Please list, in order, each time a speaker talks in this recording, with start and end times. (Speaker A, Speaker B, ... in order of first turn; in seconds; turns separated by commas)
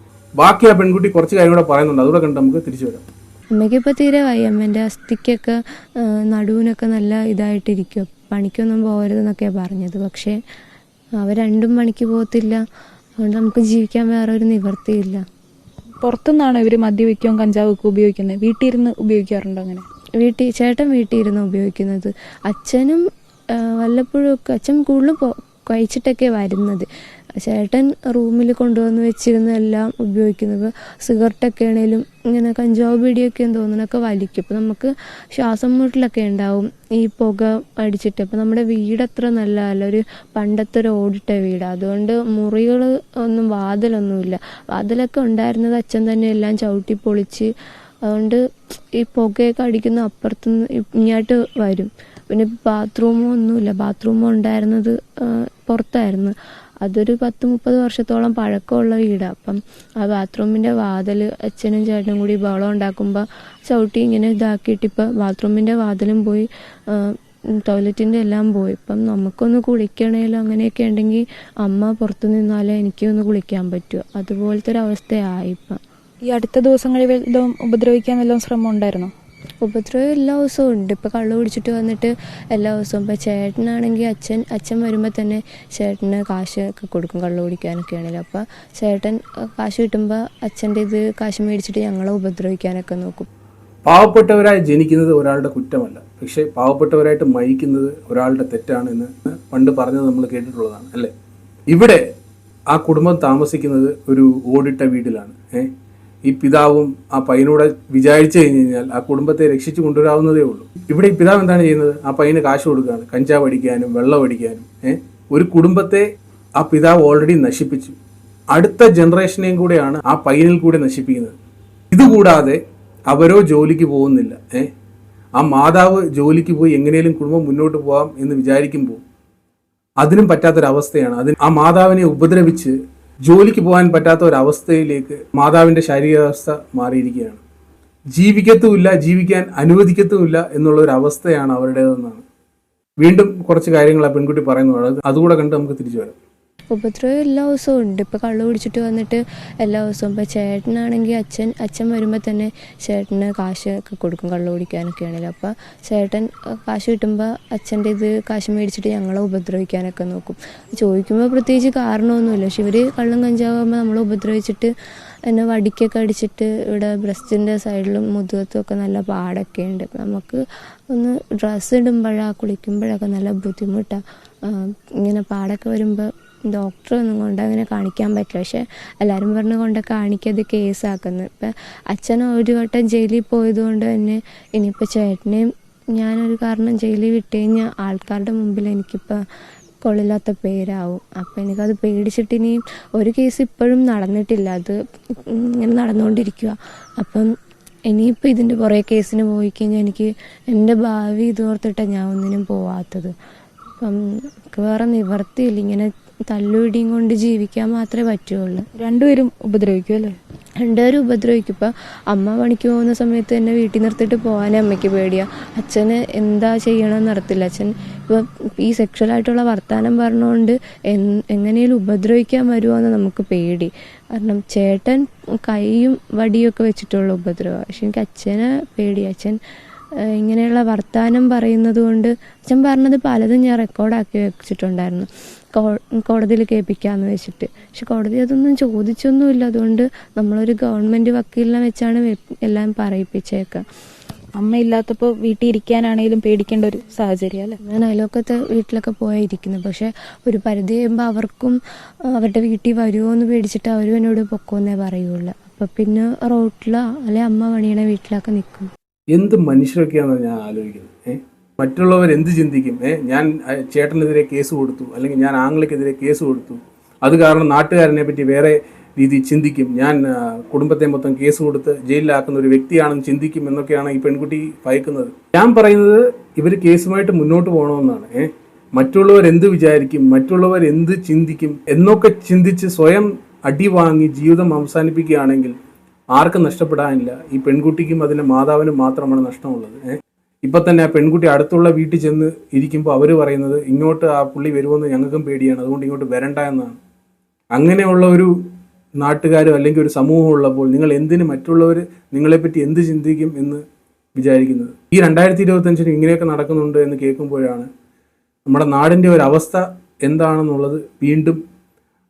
Speaker A: 0.4-3.0, Speaker B: 3.5-10.4, Speaker B: 11.2-12.6, Speaker B: 13.2-15.2, Speaker C: 16.0-19.9, Speaker B: 20.2-26.9, Speaker B: 27.4-47.5, Speaker B: 48.0-48.4, Speaker B: 49.0-75.8, Speaker C: 76.3-79.1, Speaker B: 79.6-93.3, Speaker A: 93.9-101.1, Speaker A: 101.7-102.0, Speaker A: 102.7-105.7, Speaker A: 106.2-116.0, Speaker A: 116.6-118.0, Speaker A: 118.5-121.3, Speaker A: 121.9-124.7, Speaker A: 125.4-129.0, Speaker A: 130.0-137.4, Speaker A: 138.1-142.2, Speaker A: 143.0-146.2, Speaker B: 146.7-164.7, Speaker B: 165.3-189.2, Speaker B: 189.8-197.3, Speaker B: 197.9-203.1, Speaker B: 203.8-208.7, Speaker C: 208.8-210.2, Speaker B: 210.6-229.4, Speaker B: 230.1-243.6, Speaker C: 244.4-247.6, Speaker B: 247.6-258.7, Speaker A: 259.1-285.6, Speaker A: 286.1-296.8, Speaker A: 297.6-298.5, Speaker A: 299.0-303.6, Speaker A: 304.2-307.7, Speaker A: 308.5-311.4